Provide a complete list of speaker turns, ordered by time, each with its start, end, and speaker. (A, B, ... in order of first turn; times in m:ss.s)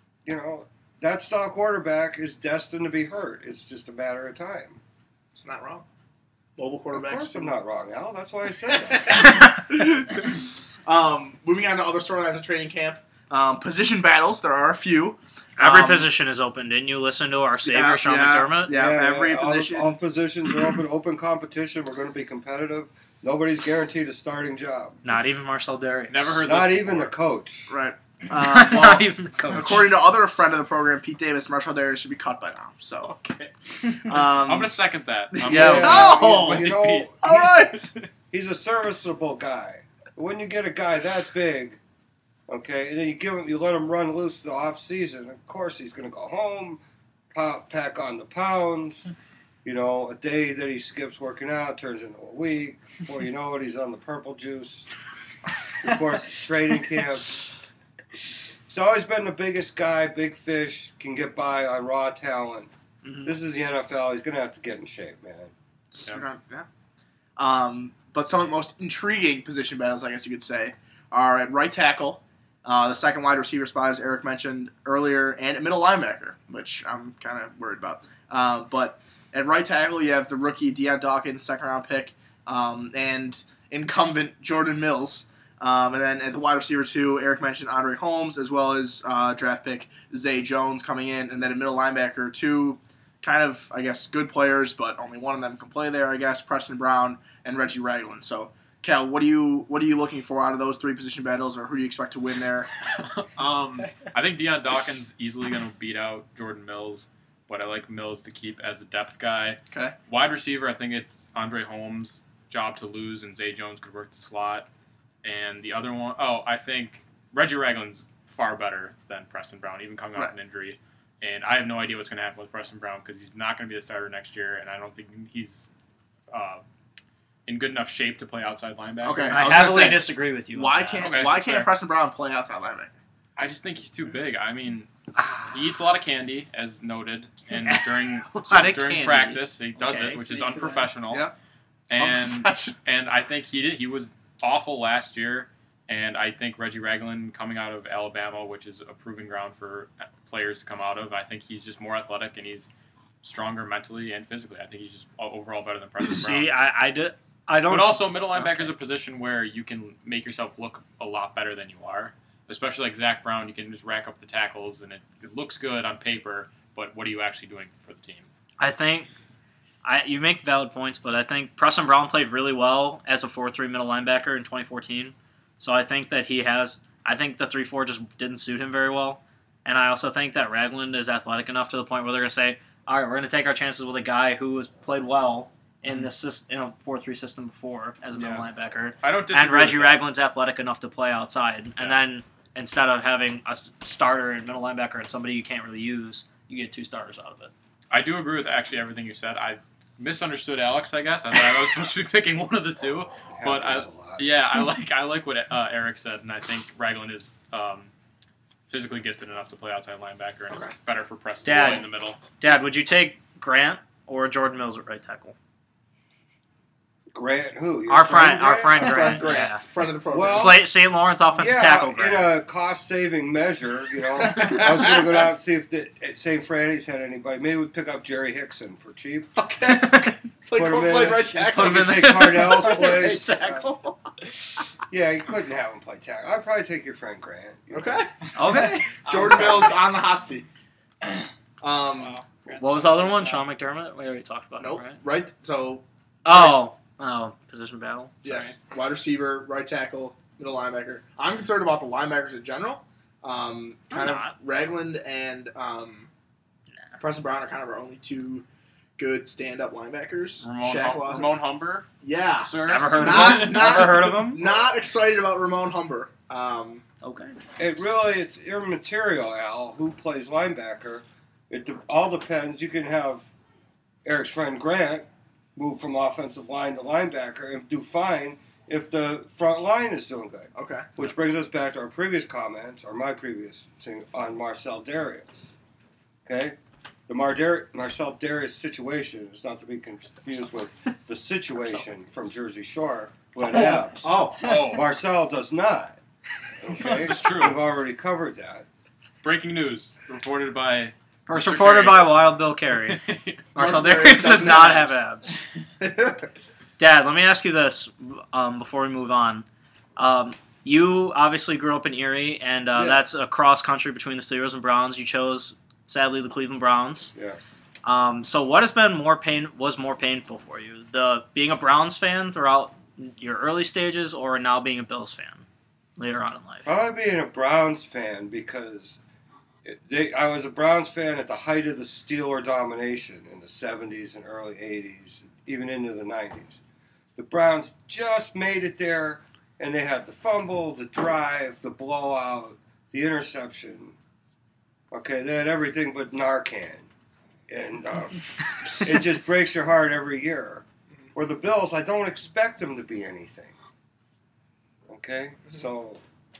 0:00.2-0:04.8 A
0:05.4-0:05.9 B
0:06.6-0:07.5 B
0:06.9-0:09.4 A
0:08.9-0:16.1 B
0:15.6-0:18.7 C
0:17.6-0:20.0 B
0:18.7-0:25.0 A
0:25.0-0:26.4 C
0:26.1-0:27.1 D
0:26.4-0:27.7 A
0:27.7-0:33.1 B
0:28.4-0:29.9 C
0:33.0-0:33.5 D
0:34.0-0:34.8 B
0:34.2-0:37.5 D
0:35.3-0:37.9 B
0:35.5-0:37.6 A
0:35.5-0:36.2 C
0:38.3-0:41.8 A
0:42.5-0:46.8 A
0:47.3-0:49.1 A
0:49.6-0:54.9 A
0:55.8-0:57.5 A
0:58.7-1:02.7 A
1:03.0-1:03.3 B
1:03.2-1:05.5 A
1:05.9-1:06.7 B
1:07.4-1:42.7 B
1:43.0-1:54.7 D
1:55.2-2:05.7 D
2:06.3-2:06.6 D
2:07.5-2:09.5 D
2:09.0-2:12.9 B
2:09.3-2:11.7 C
2:11.0-2:11.4 D
2:13.4-2:14.9 D
2:15.2-2:15.7 C
2:15.5-2:21.3 D
2:17.5-2:20.2 C
2:19.9-2:21.0 E
2:21.9-2:32.7 D
2:22.0-2:22.7 B
2:33.2-2:36.6 D
2:36.0-2:38.7 C
2:37.7-2:48.3 D
2:48.6-2:49.1 C
2:49.8-3:17.5 C
3:08.2-3:08.4 D
3:09.0-3:10.0 D
3:17.9-3:27.9 D
3:23.4-3:24.3 A
3:28.7-3:32.2 D
3:31.4-3:35.4 C
3:37.1-3:39.5 A
3:37.9-3:39.6 C
3:38.7-3:40.6 B
3:40.1-3:40.7 A
3:40.2-3:42.3 C
3:41.4-3:49.4 A
3:44.2-3:45.3 B
3:49.5-3:50.2 C
3:49.6-3:53.2 B
3:50.5-3:53.7 A
3:51.5-3:53.9 C
3:54.9-3:58.0 A
3:57.7-4:00.5 B
3:58.4-3:58.9 C
3:58.9-3:59.8 E
4:01.6-4:02.2 B
4:02.0-4:03.5 E
4:02.6-4:05.0 C
4:04.6-4:06.6 B
4:06.2-4:08.6 C
4:08.2-4:16.1 B
4:13.9-4:14.3 C
4:17.0-4:18.4 B
4:19.0-4:21.4 B
4:20.4-4:21.9 D
4:22.0-4:26.8 B
4:22.4-4:23.9 D
4:22.7-4:24.4 C
4:27.0-4:27.4 C
4:27.6-4:33.3 A
4:34.0-4:45.5 A
4:40.6-4:40.9 B
4:46.2-4:46.6 A
4:47.1-4:56.0 A
4:53.5-4:54.5 C
4:54.4-4:54.8 D
4:56.6-4:58.7 A
4:56.8-4:57.6 D
4:59.2-5:02.2 D
5:01.3-5:03.0 C
5:02.9-5:03.4 D
5:03.5-5:05.4 C
5:03.6-5:05.0 B
5:05.8-5:06.3 B
5:06.8-5:09.5 C
5:10.0-5:17.1 C
5:12.8-5:13.0 A
5:17.2-5:17.4 A
5:17.8-5:25.5 C
5:26.0-5:26.7 C
5:26.6-5:29.0 A
5:29.6-5:36.6 A
5:37.2-5:44.0 A
5:44.9-5:46.9 A
5:47.5-5:53.5 A
5:54.9-5:56.0 A